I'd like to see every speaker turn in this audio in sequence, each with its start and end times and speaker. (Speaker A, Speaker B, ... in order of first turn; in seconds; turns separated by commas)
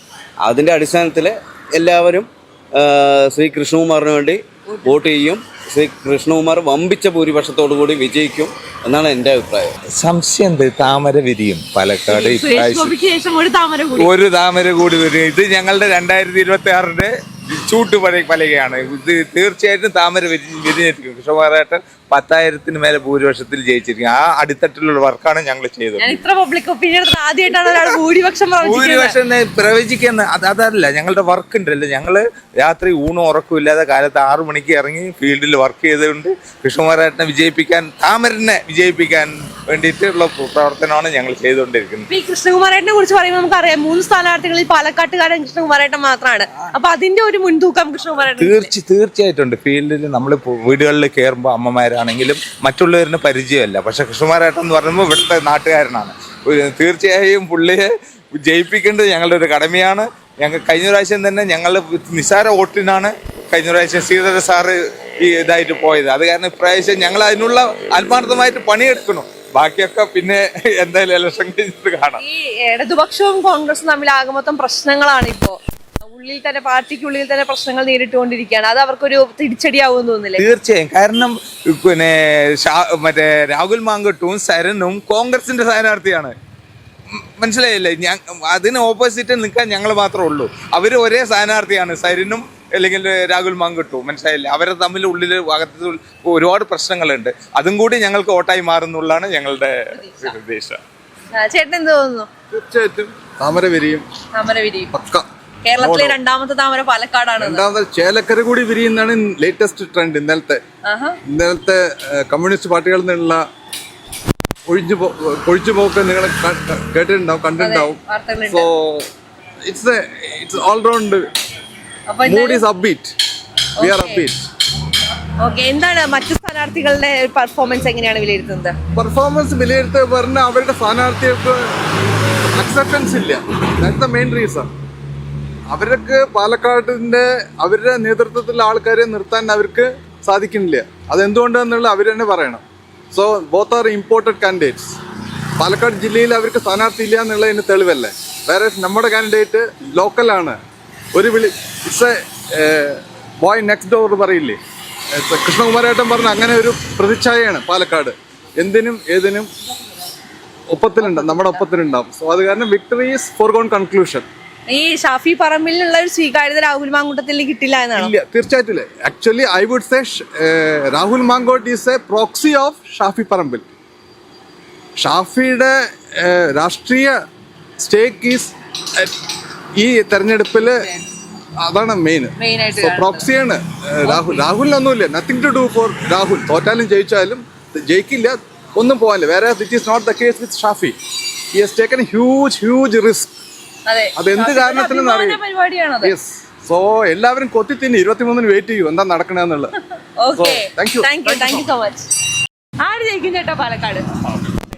Speaker A: 0.4-9.7, Speaker B: 4.7-4.9, Speaker C: 9.9-13.0, Speaker B: 12.1-14.1, Speaker C: 13.9-17.1, Speaker C: 17.6-26.2, Speaker B: 26.0-29.2, Speaker C: 27.6-27.9, Speaker C: 28.6-42.0, Speaker B: 42.1-48.7, Speaker C: 48.4-72.2, Speaker B: 72.2-80.4, Speaker C: 80.4-86.3, Speaker C: 87.1-100.8, Speaker B: 99.9-100.2, Speaker B: 101.3-102.3, Speaker D: 102.5-104.0, Speaker B: 104.3-104.9, Speaker D: 104.9-105.2, Speaker B: 105.6-107.6, Speaker D: 105.8-106.1, Speaker D: 107.4-110.6, Speaker B: 110.8-111.2, Speaker D: 111.3-111.8, Speaker D: 112.3-113.3, Speaker D: 114.7-118.0, Speaker B: 117.6-118.7, Speaker D: 118.5-119.0, Speaker D: 119.7-121.2, Speaker B: 122.1-122.6, Speaker D: 122.2-123.1, Speaker B: 123.8-124.2, Speaker D: 123.8-124.5, Speaker B: 125.4-128.7, Speaker D: 129.0-131.5, Speaker D: 132.6-134.7, Speaker D: 135.7-142.6, Speaker D: 143.1-144.9, Speaker D: 145.6-150.5, Speaker D: 151.2-152.1, Speaker D: 152.6-152.9, Speaker D: 153.4-154.6, Speaker D: 155.3-159.4, Speaker D: 160.7-164.2, Speaker B: 161.0-161.6, Speaker B: 164.7-168.1, Speaker D: 168.0-170.1, Speaker D: 170.9-173.6, Speaker D: 175.0-175.7, Speaker D: 176.6-177.1, Speaker D: 177.9-179.1, Speaker D: 179.8-180.8, Speaker B: 180.6-181.0, Speaker D: 181.7-187.4, Speaker B: 182.4-183.3, Speaker B: 184.1-184.4, Speaker D: 187.9-190.5, Speaker D: 191.7-193.3, Speaker B: 193.9-196.1, Speaker D: 194.2-195.4, Speaker D: 196.8-199.7, Speaker B: 200.2-202.1, Speaker D: 200.4-201.5, Speaker B: 202.8-204.0